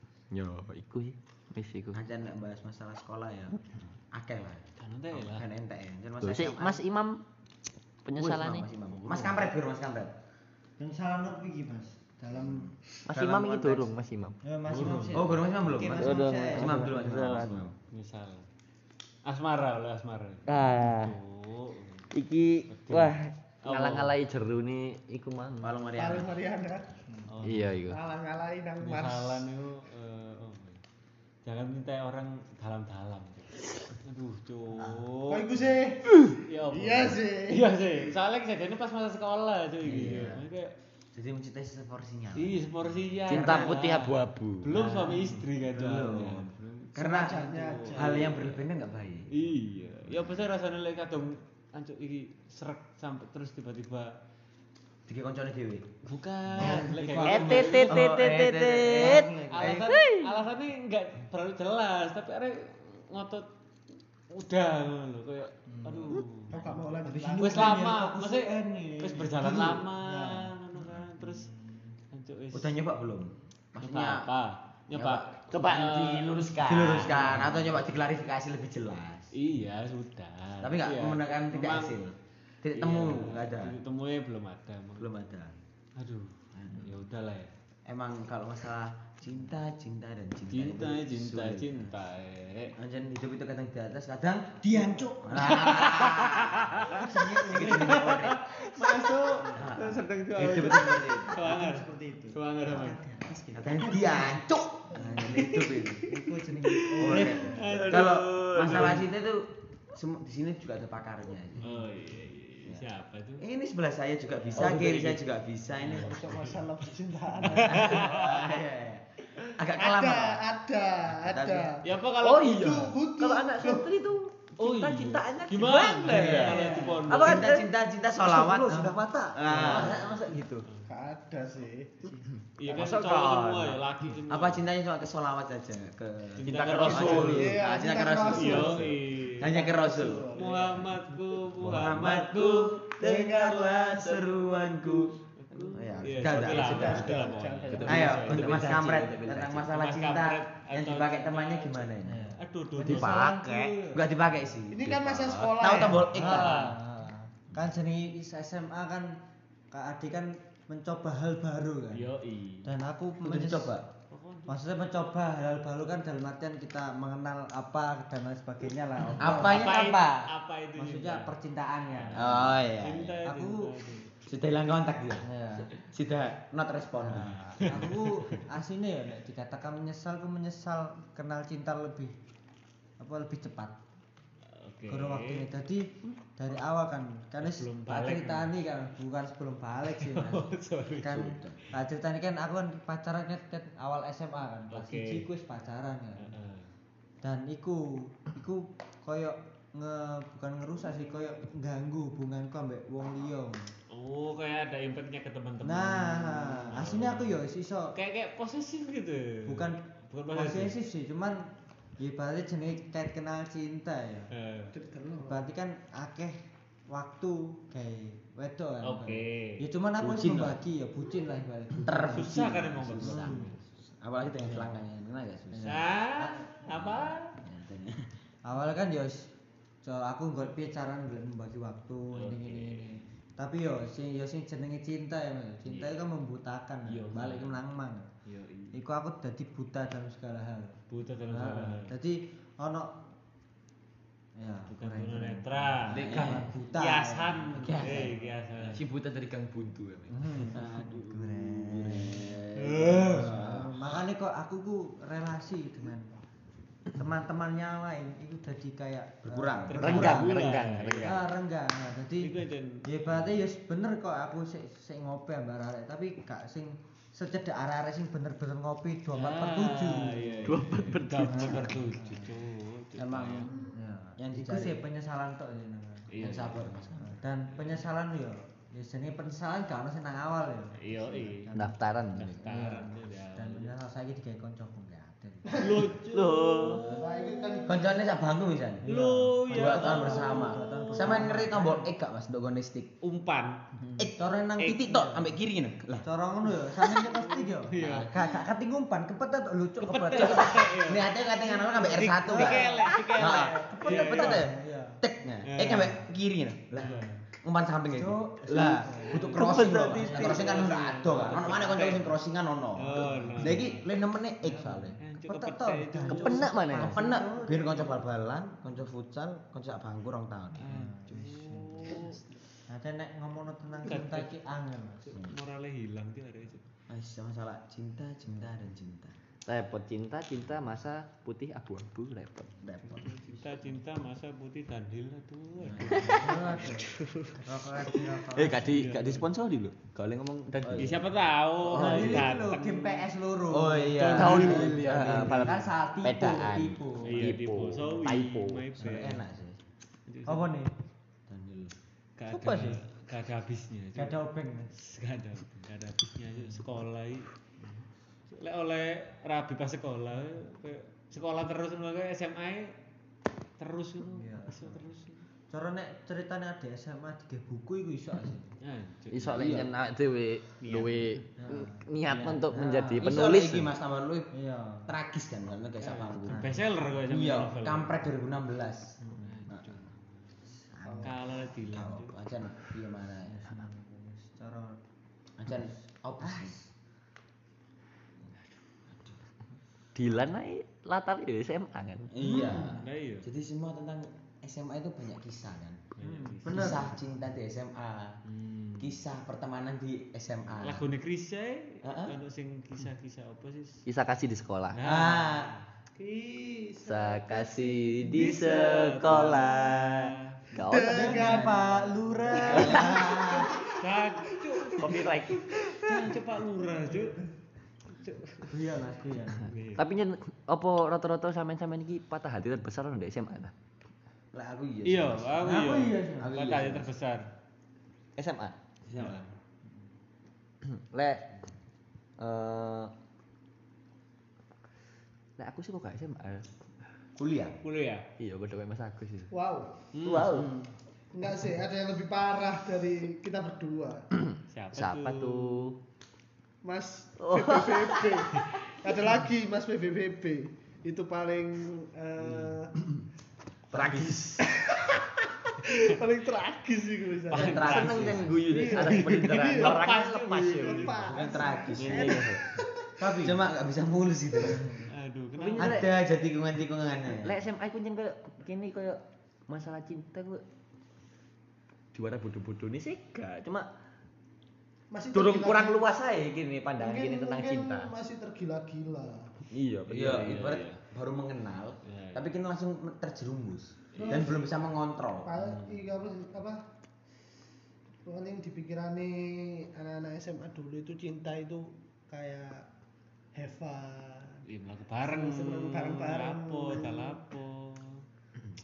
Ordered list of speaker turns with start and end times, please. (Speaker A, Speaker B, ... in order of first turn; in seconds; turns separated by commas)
Speaker A: 0.3-2.0, Speaker B: 1.9-6.8, Speaker C: 4.8-5.5, Speaker A: 6.2-7.2, Speaker A: 8.0-9.4, Speaker B: 8.2-10.1, Speaker D: 10.8-12.7, Speaker B: 12.3-13.8, Speaker A: 13.1-14.4, Speaker D: 14.4-17.2, Speaker C: 14.7-16.0, Speaker B: 15.1-17.7, Speaker A: 15.9-17.6, Speaker C: 17.4-18.5, Speaker C: 19.2-22.1, Speaker A: 20.4-21.1, Speaker A: 22.1-25.8, Speaker C: 22.7-24.1, Speaker B: 25.6-26.3, Speaker E: 25.9-26.9, Speaker C: 27.3-27.7, Speaker A: 27.4-28.0, Speaker E: 27.9-29.4, Speaker C: 28.8-30.8, Speaker C: 31.4-35.7, Speaker E: 35.3-36.1, Speaker C: 36.3-40.7, Speaker E: 36.7-37.7, Speaker B: 39.8-40.4, Speaker B: 41.1-43.9, Speaker C: 42.3-48.6, Speaker A: 43.3-44.9, Speaker B: 44.7-49.5, Speaker E: 47.0-48.3, Speaker C: 49.3-54.1, Speaker B: 55.1-55.9, Speaker C: 56.0-58.1, Speaker B: 56.5-59.9, Speaker D: 56.6-57.2, Speaker A: 57.2-60.3, Speaker D: 59.0-59.5, Speaker C: 59.5-63.5, Speaker C: 64.3-66.6, Speaker D: 65.7-70.4, Speaker E: 66.5-67.9, Speaker C: 67.4-71.5, Speaker D: 71.2-71.8, Speaker C: 72.1-72.8, Speaker B: 72.5-74.3, Speaker C: 73.8-76.4, Speaker B: 74.9-79.3, Speaker A: 75.5-77.4, Speaker C: 76.9-77.7, Speaker C: 79.3-82.0, Speaker B: 80.6-83.8, Speaker C: 82.7-85.2, Speaker B: 85.0-85.5, Speaker C: 86.0-87.5, Speaker B: 86.5-86.9, Speaker B: 87.9-91.9, Speaker C: 90.5-92.7, Speaker B: 92.8-98.5, Speaker D: 94.6-95.9, Speaker C: 95.3-103.0, Speaker D: 96.9-98.2, Speaker D: 99.3-104.4, Speaker B: 99.5-101.4, Speaker B: 103.5-106.1, Speaker D: 104.9-107.8, Speaker C: 105.3-105.9, Speaker C: 106.8-109.0, Speaker B: 107.0-111.7, Speaker C: 111.6-113.4, Speaker B: 113.4-116.5, Speaker A: 114.5-115.2, Speaker C: 115.9-116.6, Speaker E: 115.9-118.3, Speaker C: 117.4-118.5, Speaker B: 117.6-120.4, Speaker E: 119.7-124.0, Speaker B: 121.1-121.7, Speaker C: 121.8-122.9, Speaker A: 122.0-127.7, Speaker C: 124.6-127.5, Speaker B: 126.1-130.0, Speaker D: 126.2-126.9, Speaker E: 126.7-127.0, Speaker D: 128.2-130.0, Speaker A: 129.5-130.7, Speaker C: 130.7-130.9, Speaker E: 130.8-132.1, Speaker C: 132.6-134.6, Speaker A: 132.7-133.8, Speaker B: 134.3-140.3, Speaker C: 136.4-137.6, Speaker A: 136.4-137.6, Speaker E: 137.3-140.9, Speaker C: 138.2-139.5, Speaker C: 140.3-142.8, Speaker B: 141.6-152.2, Speaker A: 142.2-144.2, Speaker C: 145.4-149.0, Speaker A: 146.2-146.9, Speaker E: 146.4-148.3, Speaker A: 147.7-149.7, Speaker C: 149.7-153.3, Speaker D: 152.0-154.0, Speaker A: 152.9-153.8, Speaker B: 153.9-156.7, Speaker E: 154.7-156.1, Speaker A: 154.8-155.5, Speaker C: 156.1-156.8, Speaker D: 156.1-159.2, Speaker D: 159.7-162.0, Speaker C: 161.9-162.7, Speaker D: 162.6-163.7, Speaker B: 163.2-163.9, Speaker C: 164.1-164.5, Speaker D: 164.5-169.7, Speaker B: 169.2-170.3, Speaker C: 169.2-171.3, Speaker D: 170.8-172.6, Speaker C: 171.9-174.1, Speaker B: 172.1-173.2, Speaker D: 173.2-173.7, Speaker B: 174.2-177.8, Speaker D: 175.2-175.7, Speaker D: 177.0-182.1, Speaker C: 177.6-178.4, Speaker D: 183.0-183.8, Speaker C: 184.6-185.5, Speaker D: 184.9-190.5, Speaker C: 187.4-188.5, Speaker C: 189.9-191.5, Speaker D: 191.0-196.3, Speaker B: 191.1-191.6, Speaker C: 194.7-195.2, Speaker C: 196.2-196.7, Speaker D: 197.2-203.7, Speaker C: 203.9-207.4, Speaker D: 205.6-207.9, Speaker C: 207.9-210.7, Speaker D: 209.4-209.8, Speaker D: 210.3-214.3, Speaker C: 214.3-214.7, Speaker E: 214.7-215.5, Speaker D: 215.2-216.4, Speaker D: 216.9-222.3, Speaker C: 218.8-219.6, Speaker B: 220.0-220.6, Speaker B: 221.8-225.8, Speaker C: 222.0-223.6, Speaker D: 223.0-223.5, Speaker D: 225.5-226.7, Speaker C: 225.6-227.3, Speaker B: 226.7-228.1, Speaker D: 228.4-229.3, Speaker D: 229.8-238.1, Speaker C: 232.1-233.0, Speaker C: 235.7-236.0, Speaker C: 236.9-237.6, Speaker C: 238.2-238.7, Speaker D: 238.7-243.0, Speaker C: 240.9-241.9, Speaker D: 244.4-248.2, Speaker C: 244.7-248.8, Speaker B: 245.9-246.5, Speaker A: 245.9-246.5, Speaker A: 247.6-250.5, Speaker D: 250.1-252.4, Speaker B: 250.5-253.7, Speaker C: 252.6-253.3, Speaker D: 253.1-256.1, Speaker D: 256.9-260.3, Speaker B: 259.2-260.2, Speaker C: 259.7-261.2, Speaker A: 259.8-261.2, Speaker D: 261.0-272.3, Speaker C: 262.2-262.8, Speaker C: 269.1-273.5, Speaker A: 270.5-271.7, Speaker B: 272.9-273.5, Speaker D: 273.7-276.1, Speaker B: 274.2-274.8, Speaker C: 276.1-276.7, Speaker B: 276.1-277.2, Speaker D: 277.0-281.8, Speaker C: 277.5-277.8, Speaker C: 280.8-283.7, Speaker A: 281.5-282.4, Speaker D: 282.4-287.6, Speaker E: 285.4-285.9, Speaker C: 285.6-287.3, Speaker A: 286.0-286.9, Speaker E: 286.9-287.8, Speaker B: 287.6-288.9, Speaker D: 288.8-291.9, Speaker C: 288.9-291.3, Speaker B: 289.5-292.9, Speaker C: 293.0-293.6, Speaker D: 293.8-294.1, Speaker B: 294.0-296.1, Speaker C: 294.6-294.9, Speaker D: 294.9-295.3, Speaker D: 296.0-300.7, Speaker C: 296.8-298.3, Speaker C: 299.8-304.5, Speaker B: 300.1-314.9, Speaker D: 301.2-305.0, Speaker A: 302.9-303.2, Speaker C: 305.4-306.0, Speaker C: 306.8-307.2, Speaker D: 306.8-307.1, Speaker D: 307.9-310.7, Speaker A: 309.2-310.5, Speaker C: 309.5-312.1, Speaker C: 312.8-313.8, Speaker D: 313.0-313.7, Speaker D: 314.4-318.0, Speaker C: 315.0-316.9, Speaker A: 316.1-316.9, Speaker B: 316.7-320.6, Speaker C: 320.6-322.2, Speaker D: 320.6-325.1, Speaker C: 323.9-324.3, Speaker C: 325.1-326.6, Speaker B: 325.1-325.4, Speaker B: 326.9-329.1, Speaker A: 329.4-332.5, Speaker B: 332.6-333.2, Speaker C: 332.9-336.7, Speaker B: 335.6-336.2, Speaker A: 335.9-337.4, Speaker D: 336.1-338.6, Speaker A: 338.3-341.0, Speaker C: 338.5-339.2, Speaker B: 340.6-341.0, Speaker C: 340.8-343.1, Speaker A: 341.6-342.3, Speaker D: 341.7-347.3, Speaker B: 343.5-345.7, Speaker A: 343.9-348.6, Speaker C: 344.2-344.7, Speaker C: 347.0-349.2, Speaker B: 348.8-349.6, Speaker C: 350.1-350.5, Speaker D: 350.2-350.7, Speaker B: 351.3-351.7, Speaker C: 352.2-354.1, Speaker D: 352.3-352.8, Speaker D: 353.9-354.7, Speaker C: 354.7-357.3, Speaker C: 358.3-362.8, Speaker C: 363.6-365.2, Speaker D: 364.1-364.8, Speaker D: 365.5-368.5, Speaker C: 368.6-369.7, Speaker A: 369.1-373.7, Speaker B: 369.2-369.7, Speaker C: 370.6-371.2, Speaker D: 371.4-373.3, Speaker B: 373.0-374.3, Speaker D: 374.3-374.9, Speaker B: 374.9-376.5, Speaker C: 375.8-377.9, Speaker D: 376.2-376.9, Speaker B: 377.1-379.8, Speaker C: 379.0-380.0, Speaker D: 379.1-379.4, Speaker D: 380.5-381.1, Speaker E: 380.8-381.1, Speaker C: 381.0-382.1, Speaker B: 381.6-383.6, Speaker D: 383.2-384.8, Speaker B: 385.4-386.5, Speaker D: 385.5-386.7, Speaker A: 389.9-392.1, Speaker B: 392.1-395.8, Speaker D: 392.2-392.7, Speaker C: 392.8-393.3, Speaker C: 396.0-396.9, Speaker D: 396.0-396.9, Speaker B: 396.4-398.2, Speaker C: 398.3-398.9, Speaker B: 398.8-400.8, Speaker C: 400.6-403.8, Speaker B: 401.8-402.2, Speaker A: 403.9-404.8, Speaker C: 404.7-405.6, Speaker B: 404.8-405.5, Speaker E: 405.9-408.8, Speaker A: 406.8-411.4, Speaker C: 408.0-410.3, Speaker E: 410.6-411.5, Speaker D: 410.9-413.4, Speaker B: 411.0-413.6, Speaker E: 412.2-415.6, Speaker C: 413.7-417.2, Speaker A: 414.8-416.1, Speaker C: 417.9-418.5, Speaker D: 418.5-419.5, Speaker C: 419.4-419.9, Speaker A: 419.7-423.5, Speaker B: 424.3-426.9, Speaker C: 424.8-427.2, Speaker D: 425.4-426.3, Speaker A: 428.2-428.6, Speaker B: 428.9-429.2, Speaker A: 430.6-431.2, Speaker A: 432.2-432.9, Speaker A: 435.4-436.5, Speaker B: 437.2-437.6, Speaker C: 437.6-438.1, Speaker A: 438.2-439.3, Speaker E: 439.3-439.8, Speaker C: 439.9-440.4, Speaker A: 440.0-440.5, Speaker B: 440.3-440.7, Speaker E: 441.1-444.1, Speaker C: 444.5-445.7, Speaker A: 444.7-445.8, Speaker E: 446.6-452.9, Speaker A: 447.2-448.5, Speaker A: 453.7-454.4, Speaker B: 453.7-454.1, Speaker E: 454.4-457.7, Speaker C: 457.3-461.1, Speaker B: 457.3-458.3, Speaker A: 457.3-461.0, Speaker E: 458.4-462.9, Speaker B: 461.0-462.3, Speaker A: 461.7-462.4, Speaker D: 463.0-463.4, Speaker B: 463.2-464.8, Speaker D: 464.5-464.9, Speaker C: 464.9-465.9, Speaker A: 465.4-465.9, Speaker B: 465.5-467.4, Speaker A: 467.0-470.4, Speaker A: 471.9-473.7, Speaker E: 474.9-475.9, Speaker A: 475.1-477.9, Speaker E: 476.8-479.4, Speaker A: 479.5-480.4, Speaker B: 479.9-485.4, Speaker C: 479.9-480.8, Speaker C: 481.8-482.2, Speaker C: 483.9-484.3, Speaker E: 484.0-484.5, Speaker E: 485.2-486.6, Speaker E: 488.0-492.6, Speaker E: 493.3-494.4, Speaker C: 494.4-498.0, Speaker E: 495.0-497.2